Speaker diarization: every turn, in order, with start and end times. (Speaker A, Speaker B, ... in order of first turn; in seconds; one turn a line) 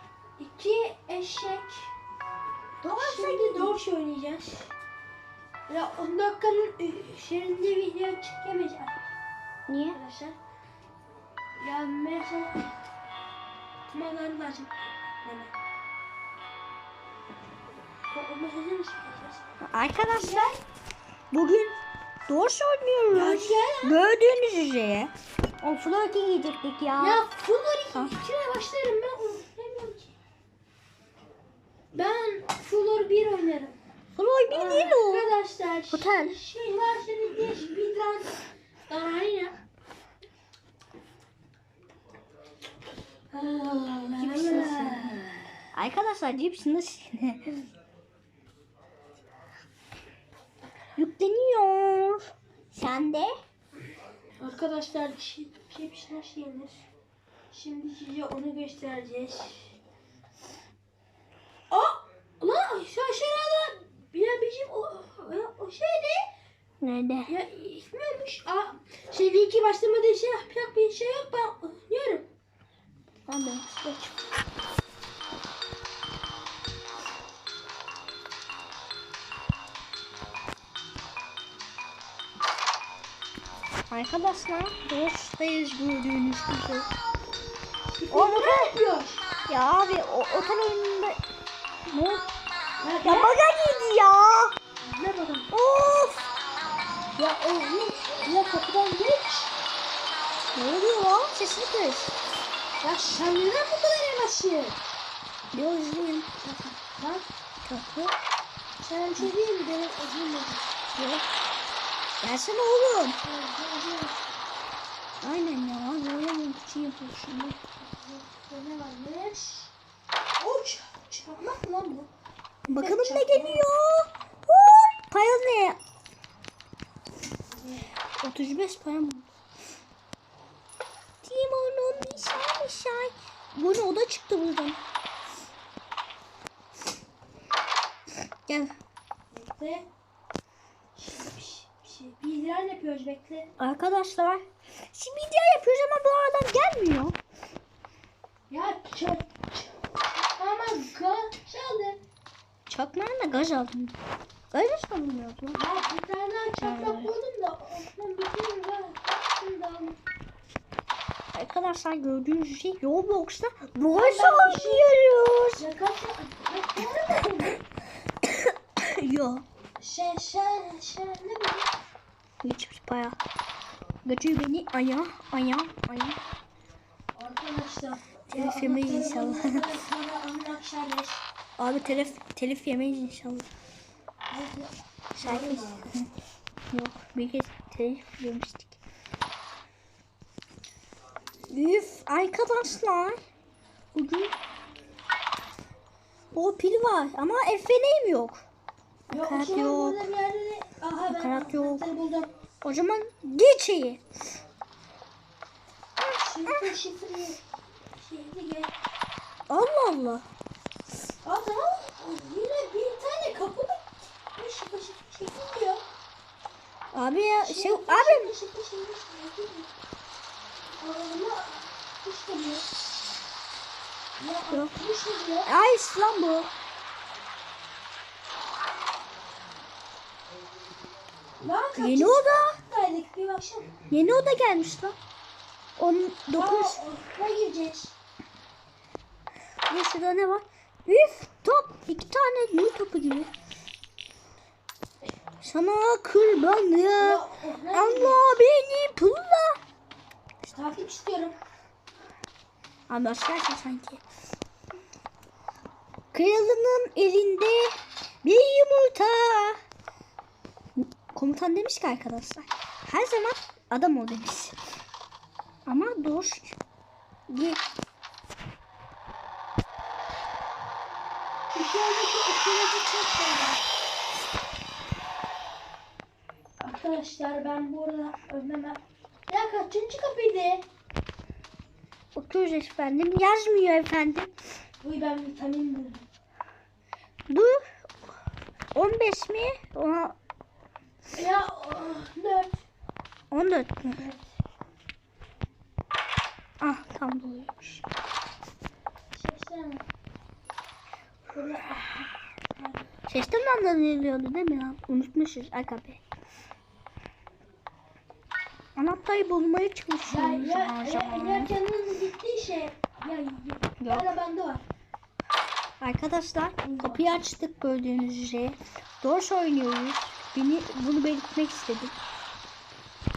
Speaker A: 0.4-1.9
Speaker B: 2.8-3.8
Speaker A: 2.8-4.7
Speaker A: 5.7-9.0
Speaker B: 9.7-10.0
Speaker A: 9.9-10.4
Speaker A: 11.6-12.7
Speaker A: 13.9-15.5
Speaker A: 18.1-19.4
Speaker B: 19.6-20.5
Speaker A: 20.0-20.6
Speaker B: 21.3-21.8
Speaker B: 22.3-27.2
Speaker A: 23.1-24.1
Speaker A: 27.0-30.1
Speaker A: 31.9-33.8
Speaker B: 34.1-35.3
Speaker A: 34.5-39.5
Speaker B: 35.9-36.4
Speaker A: 43.3-45.3
Speaker B: 44.2-45.2
Speaker B: 45.7-47.7
Speaker B: 51.0-53.3
Speaker A: 54.4-56.8
Speaker A: 57.5-59.8
Speaker A: 61.7-66.2
Speaker B: 66.8-67.3
Speaker A: 67.3-72.3
Speaker B: 73.3-74.2
Speaker B: 83.9-86.9
Speaker A: 88.0-89.2
Speaker B: 88.1-88.7
Speaker B: 89.5-91.2
Speaker B: 91.9-92.3
Speaker A: 92.8-93.4
Speaker B: 93.0-94.5
Speaker A: 94.8-95.5
Speaker B: 95.5-96.2
Speaker B: 97.2-97.9
Speaker A: 97.7-99.5
Speaker B: 100.5-102.1
Speaker A: 102.8-104.8
Speaker B: 105.5-106.3
Speaker A: 106.4-107.2
Speaker B: 107.6-108.1
Speaker A: 108.8-110.7
Speaker B: 110.9-111.2
Speaker B: 112.2-113.2
Speaker A: 113.2-114.3
Speaker B: 115.2-117.6
Speaker A: 117.8-119.7
Speaker A: 120.4-122.1
Speaker B: 122.7-125.8
Speaker A: 122.7-123.6
Speaker A: 127.5-127.9
Speaker B: 128.2-129.3
Speaker B: 131.2-134.8
Speaker B: 138.5-138.7
Speaker A: 139.3-139.9
Speaker A: 140.9-143.5
Speaker B: 143.6-147.2
Speaker A: 148.5-152.0
Speaker B: 152.7-154.0
Speaker B: 154.5-155.6
Speaker A: 155.5-160.0
Speaker B: 156.6-157.1
Speaker B: 161.3-165.6
Speaker A: 163.9-164.9
Speaker A: 165.6-167.6
Speaker B: 168.3-169.4
Speaker A: 169.8-171.7
Speaker B: 172.4-173.2
Speaker B: 174.0-176.2
Speaker A: 177.2-181.2
Speaker B: 178.3-179.6
Speaker B: 181.6-183.5
Speaker A: 184.3-185.9
Speaker B: 185.2-186.1
Speaker B: 186.7-188.8
Speaker B: 191.5-193.2
Speaker B: 193.9-194.3
Speaker B: 196.3-198.4
Speaker B: 199.1-200.0
Speaker A: 199.1-202.3
Speaker B: 201.1-201.8
Speaker B: 202.6-204.0
Speaker A: 206.0-207.4
Speaker A: 207.9-208.7
Speaker B: 209.5-210.2
Speaker A: 211.2-213.8
Speaker A: 214.4-215.8
Speaker B: 216.9-218.3
Speaker A: 217.4-219.7
Speaker A: 220.8-222.7
Speaker A: 224.2-225.5
Speaker B: 225.4-226.5
Speaker A: 231.4-233.7
Speaker B: 231.8-232.6
Speaker B: 233.9-234.9
Speaker B: 235.8-236.8
Speaker A: 236.3-237.9
Speaker B: 239.7-243.3
Speaker B: 245.4-249.6
Speaker A: 247.0-248.4
Speaker A: 250.5-251.3
Speaker B: 252.9-254.0
Speaker B: 256.1-259.6
Speaker B: 260.8-264.6
Speaker B: 265.6-266.6
Speaker B: 267.3-267.6
Speaker A: 271.5-273.6
Speaker A: 276.6-280.6
Speaker B: 282.1-284.3
Speaker A: 284.8-286.1
Speaker B: 287.3-287.6
Speaker B: 288.7-290.1
Speaker A: 291.1-292.6
Speaker B: 293.3-294.0
Speaker A: 293.9-294.2
Speaker B: 296.6-297.8
Speaker A: 299.1-299.9
Speaker A: 301.3-302.8
Speaker B: 303.1-306.0
Speaker B: 308.8-311.5
Speaker A: 310.1-314.6
Speaker B: 313.8-314.1
Speaker B: 315.8-322.0
Speaker A: 316.6-317.1